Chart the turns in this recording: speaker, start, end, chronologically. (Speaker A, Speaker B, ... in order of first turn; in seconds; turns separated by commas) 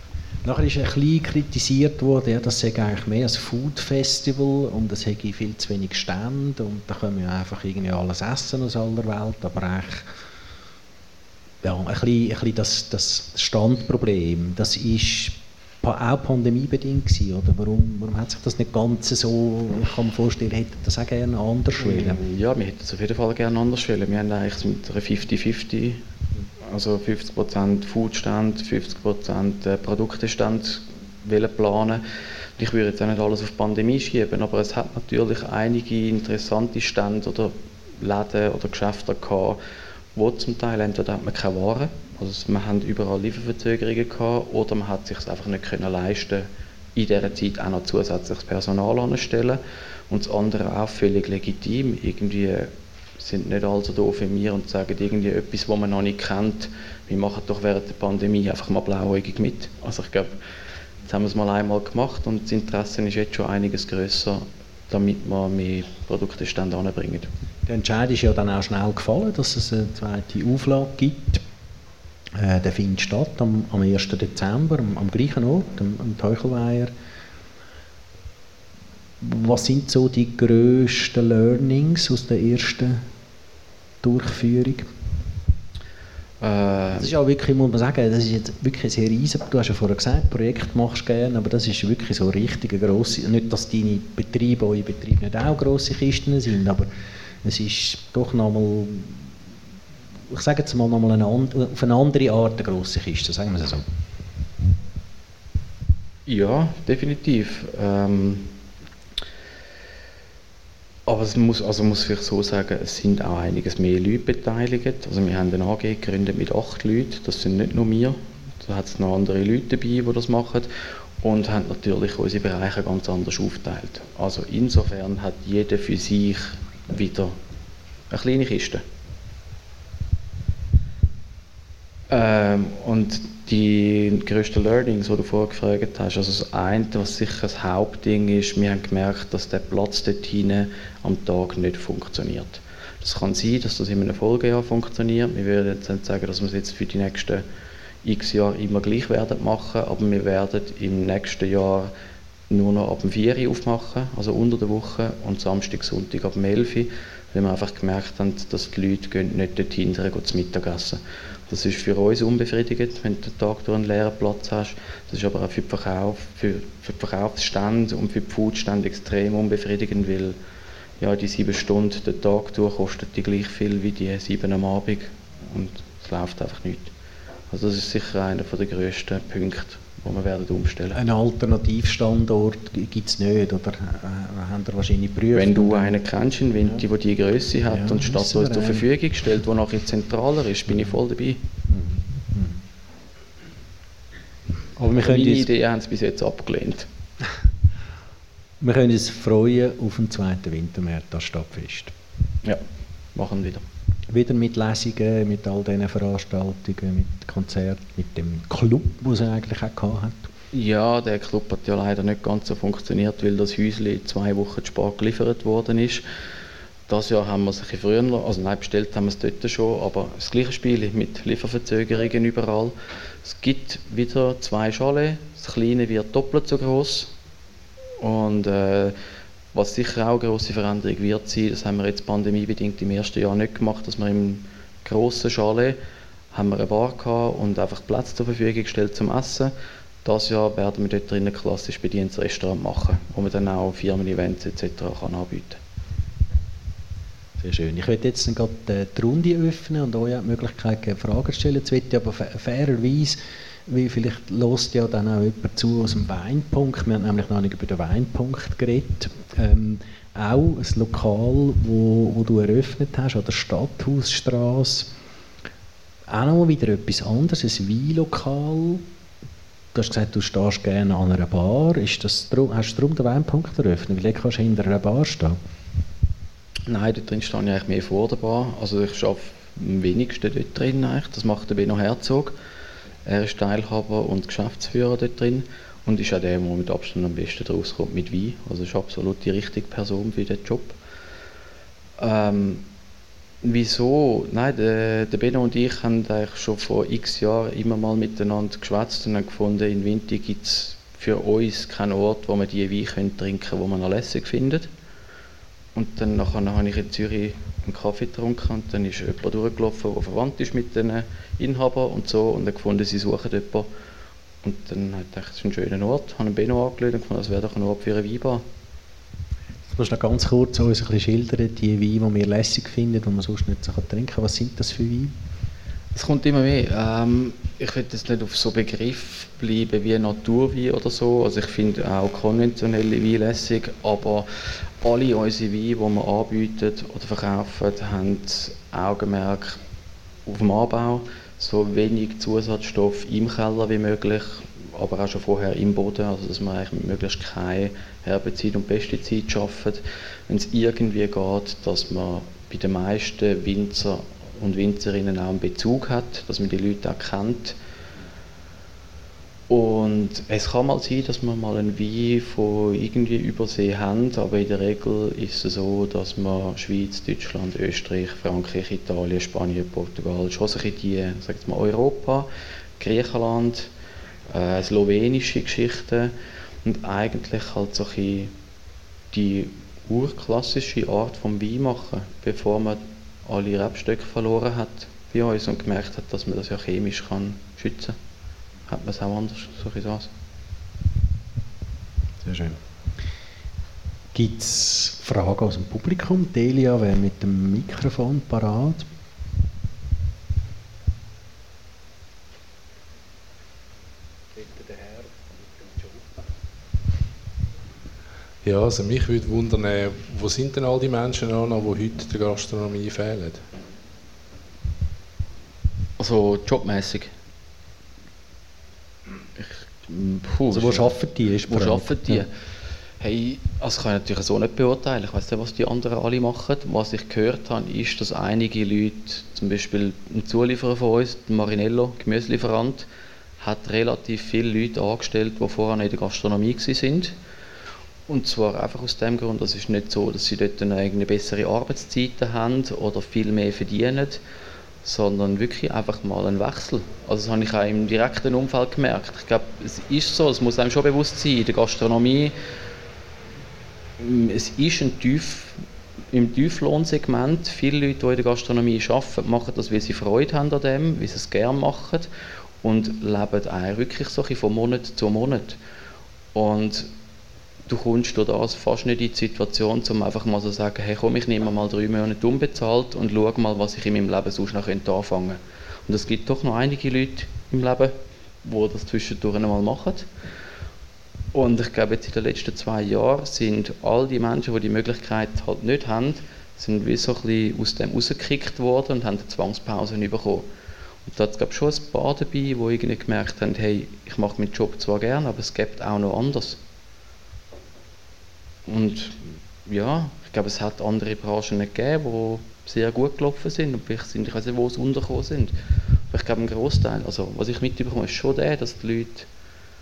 Speaker A: 0.4-10.1, Speaker A: 11.6-22.2, Speaker B: 21.8-26.0, Speaker B: 26.6-32.0, Speaker B: 32.6-39.6, Speaker B: 40.1-60.4, Speaker B: 61.0-67.3, Speaker A: 67.7-71.4, Speaker A: 72.3-76.9, Speaker A: 79.2-83.0, Speaker A: 84.0-84.9, Speaker B: 86.4-87.1, Speaker A: 86.9-96.9, Speaker A: 97.4-99.2, Speaker A: 100.3-103.9, Speaker B: 106.3-108.5, Speaker B: 111.1-120.7, Speaker B: 121.2-127.4, Speaker B: 128.1-128.8, Speaker B: 132.1-147.4, Speaker B: 148.0-151.9, Speaker B: 152.5-170.4, Speaker B: 171.0-176.9, Speaker B: 177.5-181.0, Speaker A: 180.9-186.0, Speaker B: 185.3-191.4, Speaker A: 187.7-188.9, Speaker A: 191.7-192.6, Speaker A: 194.8-195.5, Speaker B: 194.9-196.9, Speaker A: 198.6-201.9, Speaker B: 203.2-203.7, Speaker A: 204.1-210.3, Speaker B: 210.5-216.1, Speaker B: 216.9-227.1, Speaker B: 228.0-229.0, Speaker B: 229.5-235.8, Speaker B: 236.3-245.6, Speaker A: 247.4-264.9, Speaker A: 266.1-268.8, Speaker A: 269.7-275.4, Speaker B: 276.7-282.4, Speaker B: 283.0-290.8, Speaker B: 292.0-292.6, Speaker B: 293.4-304.7, Speaker B: 305.7-313.7, Speaker B: 314.4-318.4, Speaker A: 319.7-325.1, Speaker B: 325.9-339.6, Speaker B: 340.3-357.6, Speaker B: 359.5-373.7, Speaker B: 374.3-378.3, Speaker B: 379.1-388.0, Speaker B: 388.7-390.1, Speaker A: 392.2-392.6, Speaker A: 394.1-398.9, Speaker A: 404.4-406.1, Speaker C: 408.4-413.5, Speaker B: 416.0-417.1, Speaker B: 419.4-420.9, Speaker A: 420.5-422.3, Speaker B: 421.5-422.3, Speaker B: 423.0-432.9, Speaker B: 433.4-437.1, Speaker B: 438.1-444.2, Speaker B: 444.8-452.3, Speaker B: 454.0-462.1, Speaker B: 462.6-465.6, Speaker B: 466.3-466.9, Speaker B: 467.7-480.1, Speaker B: 481.3-490.5, Speaker B: 491.1-496.6, Speaker B: 498.7-505.6, Speaker B: 506.1-509.3